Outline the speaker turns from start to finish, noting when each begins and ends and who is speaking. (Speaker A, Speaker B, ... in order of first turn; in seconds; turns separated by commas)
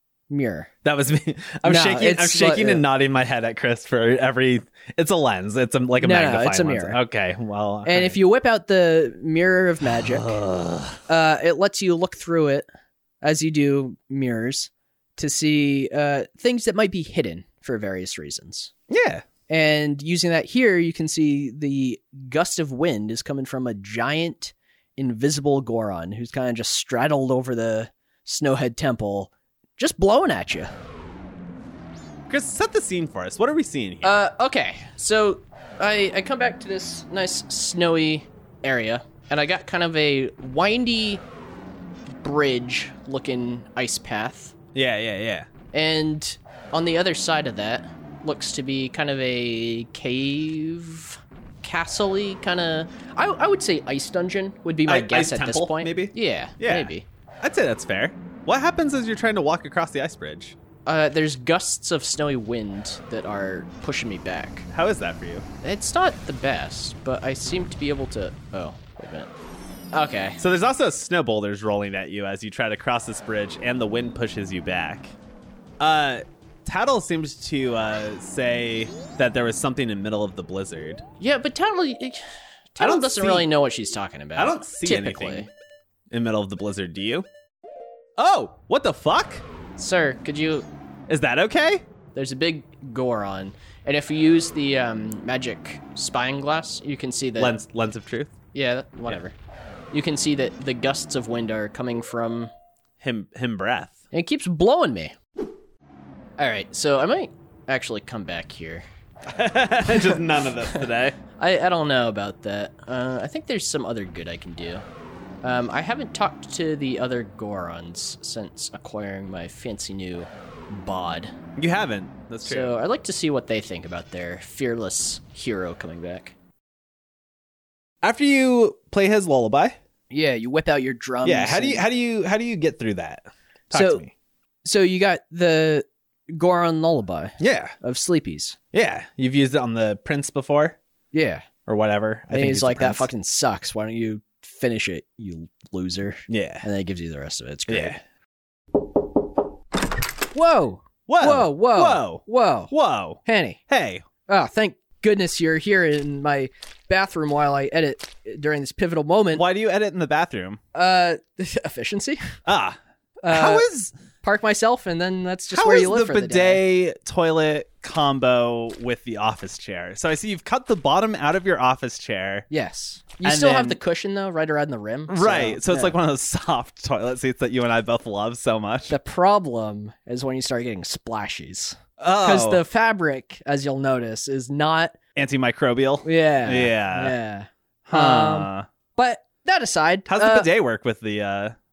Speaker A: 0.3-0.7, Speaker B: 0.8-8.2, Speaker A: 1.6-2.8, Speaker A: 6.0-7.0, Speaker A: 7.8-10.3, Speaker B: 9.9-11.0, Speaker A: 11.1-12.7, Speaker A: 13.2-18.7, Speaker B: 18.9-19.2, Speaker A: 19.5-30.7, Speaker B: 32.3-34.2, Speaker A: 34.0-41.2, Speaker A: 42.1-44.5, Speaker B: 44.7-45.5, Speaker A: 45.7-57.0, Speaker B: 54.9-56.9, Speaker B: 57.4-60.6, Speaker A: 60.9-64.7, Speaker B: 64.7-65.5, Speaker A: 65.6-69.3, Speaker A: 69.9-70.4, Speaker B: 70.4-75.2, Speaker B: 75.8-81.0, Speaker A: 81.2-82.2, Speaker A: 82.7-85.5, Speaker B: 82.8-83.5, Speaker B: 84.4-85.5, Speaker B: 86.1-87.3, Speaker B: 88.2-89.4, Speaker A: 89.8-90.7, Speaker B: 91.1-91.8, Speaker A: 92.2-97.5, Speaker B: 97.4-98.3, Speaker A: 98.5-99.4, Speaker A: 99.9-102.5, Speaker B: 103.0-104.0, Speaker A: 104.1-105.2, Speaker A: 106.4-108.8, Speaker B: 109.3-111.2, Speaker A: 109.9-110.8, Speaker A: 111.4-114.8, Speaker A: 115.4-121.3, Speaker B: 121.6-122.8, Speaker A: 122.4-126.3, Speaker B: 128.0-129.8, Speaker A: 130.1-131.8, Speaker B: 131.2-134.1, Speaker A: 133.7-134.0, Speaker A: 134.7-138.6, Speaker B: 137.4-137.7, Speaker B: 138.7-140.8, Speaker A: 141.1-141.5, Speaker B: 141.7-143.1, Speaker A: 142.3-148.0, Speaker B: 146.3-146.7, Speaker B: 147.7-148.0, Speaker A: 150.3-152.7, Speaker B: 151.1-154.1, Speaker A: 153.2-153.6, Speaker A: 154.3-159.4, Speaker B: 159.3-160.6, Speaker A: 160.7-162.2, Speaker B: 162.5-163.9, Speaker A: 163.2-163.7, Speaker A: 164.2-166.6, Speaker B: 165.5-172.5, Speaker A: 172.5-175.9, Speaker B: 173.2-173.8, Speaker B: 175.1-178.9, Speaker A: 178.9-185.0, Speaker B: 182.0-182.7, Speaker B: 185.2-187.2, Speaker A: 186.0-190.5, Speaker B: 187.9-188.7, Speaker B: 190.1-191.6